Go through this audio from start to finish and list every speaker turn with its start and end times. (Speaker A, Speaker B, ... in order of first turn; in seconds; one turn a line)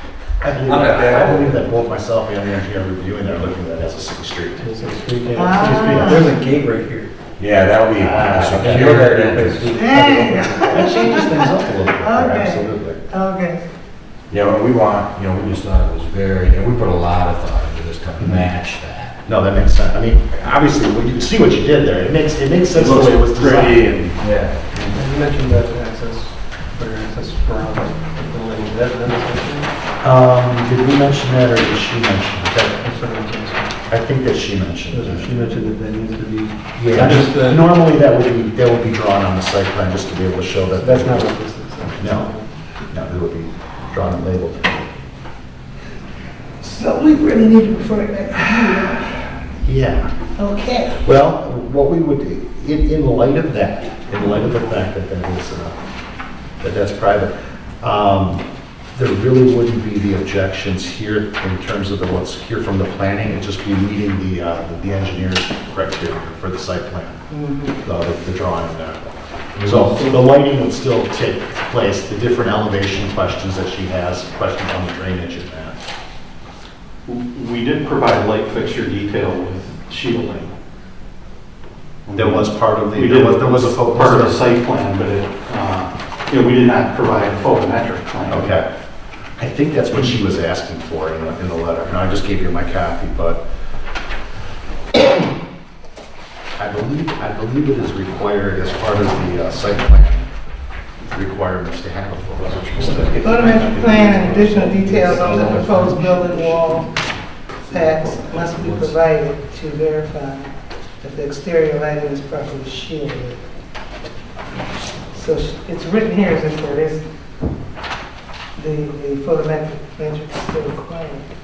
Speaker A: 0.4-4.7
Speaker B: 0.6-1.6
Speaker C: 4.6-7.1
Speaker D: 5.3-6.3
Speaker B: 7.4-9.8
Speaker A: 8.0-9.0
Speaker C: 8.5-10.9
Speaker D: 9.7-13.6
Speaker A: 10.7-13.0
Speaker B: 14.3-19.1
Speaker A: 18.2-18.5
Speaker A: 19.2-24.1
Speaker E: 22.8-24.1
Speaker B: 24.1-24.8
Speaker C: 24.9-29.7
Speaker A: 30.0-32.8
Speaker C: 32.8-33.8
Speaker A: 33.9-35.3
Speaker C: 34.9-37.7
Speaker A: 36.8-42.3
Speaker C: 40.8-42.5
Speaker A: 42.9-44.9
Speaker D: 46.6-49.3
Speaker A: 49.6-50.2
Speaker D: 50.3-51.0
Speaker A: 50.9-55.8
Speaker A: 56.6-67.2
Speaker D: 67.3-67.8
Speaker A: 67.8-69.0
Speaker A: 69.5-75.8
Speaker E: 69.6-70.1
Speaker E: 77.0-80.5
Speaker E: 82.1-88.5
Speaker A: 82.1-84.4
Speaker A: 88.3-88.7
Speaker A: 89.4-93.4
Speaker A: 96.6-100.3
Speaker A: 101.1-103.3
Speaker C: 102.8-106.5
Speaker D: 103.2-106.9
Speaker E: 103.9-105.2
Speaker E: 107.7-108.9
Speaker D: 107.7-113.4
Speaker D: 115.1-117.1
Speaker D: 118.5-121.3